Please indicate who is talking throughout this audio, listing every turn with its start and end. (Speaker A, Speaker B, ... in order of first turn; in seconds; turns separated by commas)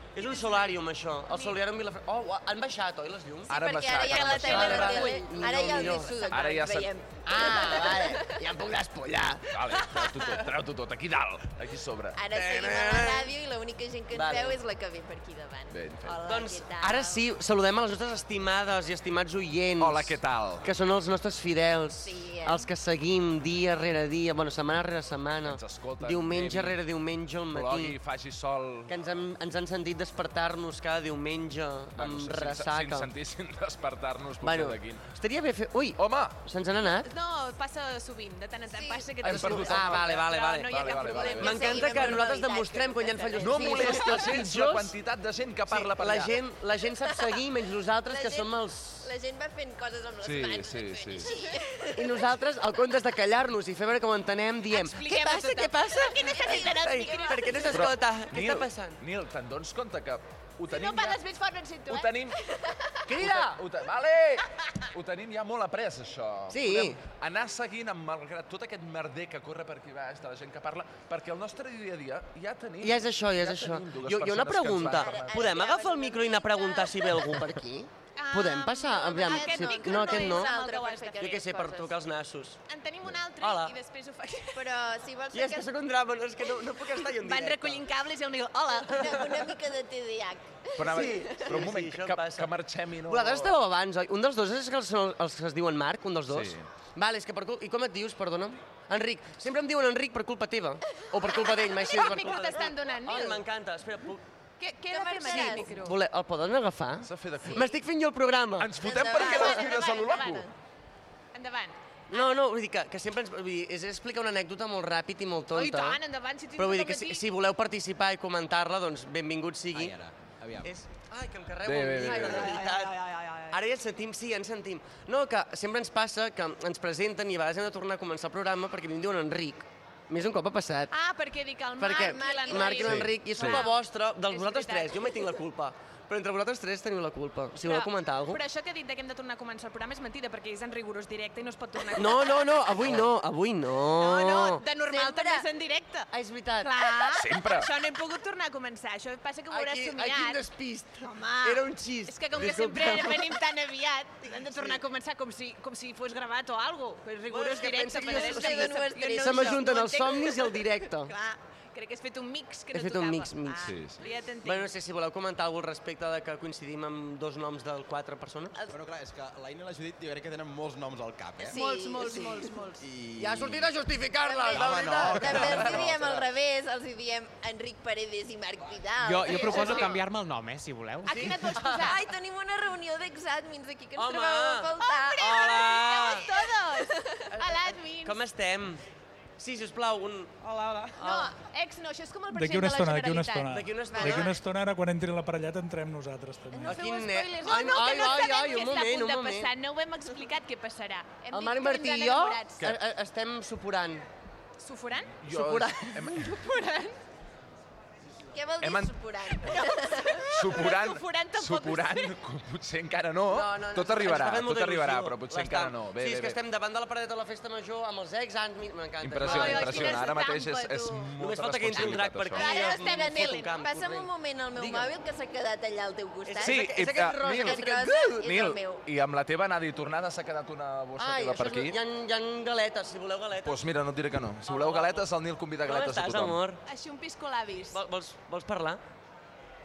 Speaker A: 0.1-3.5, Speaker B: 0.2-0.8, Speaker B: 1.3-1.6, Speaker C: 3.5-5.0, Speaker D: 3.5-8.4, Speaker B: 4.0-6.5, Speaker A: 4.3-6.2, Speaker C: 6.3-6.9, Speaker A: 7.3-9.6, Speaker C: 9.5-12.2, Speaker D: 12.2-17.2, Speaker A: 12.3-13.3, Speaker A: 14.1-14.6, Speaker C: 15.7-16.2, Speaker A: 16.2-28.0, Speaker C: 19.8-20.7, Speaker D: 22.0-22.7, Speaker C: 25.4-26.8, Speaker C: 27.5-28.9, Speaker A: 28.9-33.1, Speaker C: 32.0-35.1, Speaker A: 34.4-37.1, Speaker C: 36.0-36.4, Speaker B: 36.9-42.3, Speaker D: 38.7-39.1, Speaker A: 39.2-45.0, Speaker C: 39.2-42.1, Speaker D: 41.1-44.2, Speaker C: 43.4-46.4, Speaker A: 45.7-49.0, Speaker D: 47.1-47.4, Speaker D: 48.1-52.2, Speaker C: 50.2-51.3, Speaker A: 52.0-59.0, Speaker B: 54.7-57.8, Speaker D: 55.1-55.5, Speaker D: 56.1-57.6, Speaker C: 57.7-61.2, Speaker B: 60.7-62.1, Speaker C: 61.9-62.4, Speaker A: 63.1-63.6, Speaker C: 63.1-75.5, Speaker A: 66.5-67.0, Speaker A: 72.8-80.5, Speaker D: 74.9-77.2, Speaker B: 78.2-81.4, Speaker D: 79.1-82.0, Speaker A: 81.2-82.6, Speaker B: 82.7-84.7, Speaker A: 83.4-83.8, Speaker D: 84.5-85.7, Speaker A: 85.3-87.8, Speaker B: 87.2-89.2, Speaker D: 88.9-91.5, Speaker C: 90.8-93.5, Speaker A: 90.9-92.5, Speaker A: 93.0-104.2, Speaker C: 96.3-96.7, Speaker D: 101.0-101.6, Speaker B: 101.8-103.4, Speaker B: 104.6-106.0, Speaker D: 104.9-105.8, Speaker A: 105.3-108.8, Speaker C: 107.0-107.7, Speaker C: 108.6-110.5, Speaker D: 108.8-110.4, Speaker B: 109.1-110.5, Speaker B: 111.3-112.4, Speaker A: 112.1-116.0, Speaker B: 115.5-117.2, Speaker A: 116.6-120.0, Speaker E: 119.7-120.7, Speaker A: 120.6-123.0, Speaker C: 121.6-122.6, Speaker B: 122.1-123.6, Speaker A: 123.5-130.9, Speaker B: 130.9-135.1, Speaker A: 131.8-138.4, Speaker D: 131.9-133.0, Speaker C: 132.9-133.7, Speaker B: 137.6-142.7, Speaker A: 141.9-144.6, Speaker B: 144.0-146.1, Speaker D: 144.9-145.4, Speaker A: 146.1-146.8, Speaker B: 146.6-150.4, Speaker C: 147.1-147.7, Speaker A: 149.5-153.4, Speaker B: 151.0-164.7, Speaker A: 154.3-154.8, Speaker A: 157.3-161.1, Speaker D: 158.1-159.7, Speaker A: 162.7-163.7, Speaker C: 163.6-164.0, Speaker A: 164.4-168.6, Speaker E: 168.7-171.5, Speaker D: 171.4-172.4, Speaker B: 171.4-172.8, Speaker E: 172.8-173.7, Speaker A: 173.2-175.9, Speaker D: 174.2-179.9, Speaker E: 174.5-176.3, Speaker F: 179.0-181.5, Speaker B: 179.3-180.0, Speaker B: 181.1-182.0, Speaker A: 181.1-181.9, Speaker D: 181.7-185.6, Speaker A: 184.0-186.2, Speaker B: 184.8-188.2, Speaker D: 186.6-187.3, Speaker A: 187.5-188.8, Speaker A: 189.4-191.3, Speaker B: 191.0-193.6, Speaker G: 192.3-196.8, Speaker A: 193.5-194.3, Speaker D: 193.9-194.3, Speaker B: 196.5-202.7, Speaker A: 196.6-199.5, Speaker A: 201.3-204.1, Speaker B: 204.6-205.2, Speaker C: 205.2-206.3, Speaker A: 205.3-205.9, Speaker B: 206.0-207.0, Speaker D: 208.3-210.2, Speaker C: 208.6-208.9, Speaker B: 209.3-212.2, Speaker C: 210.3-216.4, Speaker A: 213.3-220.1, Speaker C: 219.0-222.6, Speaker B: 219.2-221.1, Speaker A: 221.2-224.9, Speaker B: 221.7-223.5, Speaker D: 222.5-226.8, Speaker A: 226.3-228.3, Speaker C: 226.4-231.8, Speaker D: 227.3-228.8, Speaker A: 231.0-233.6, Speaker C: 233.4-236.4, Speaker A: 234.4-235.1, Speaker A: 235.6-236.6, Speaker B: 236.7-237.8, Speaker A: 237.7-238.8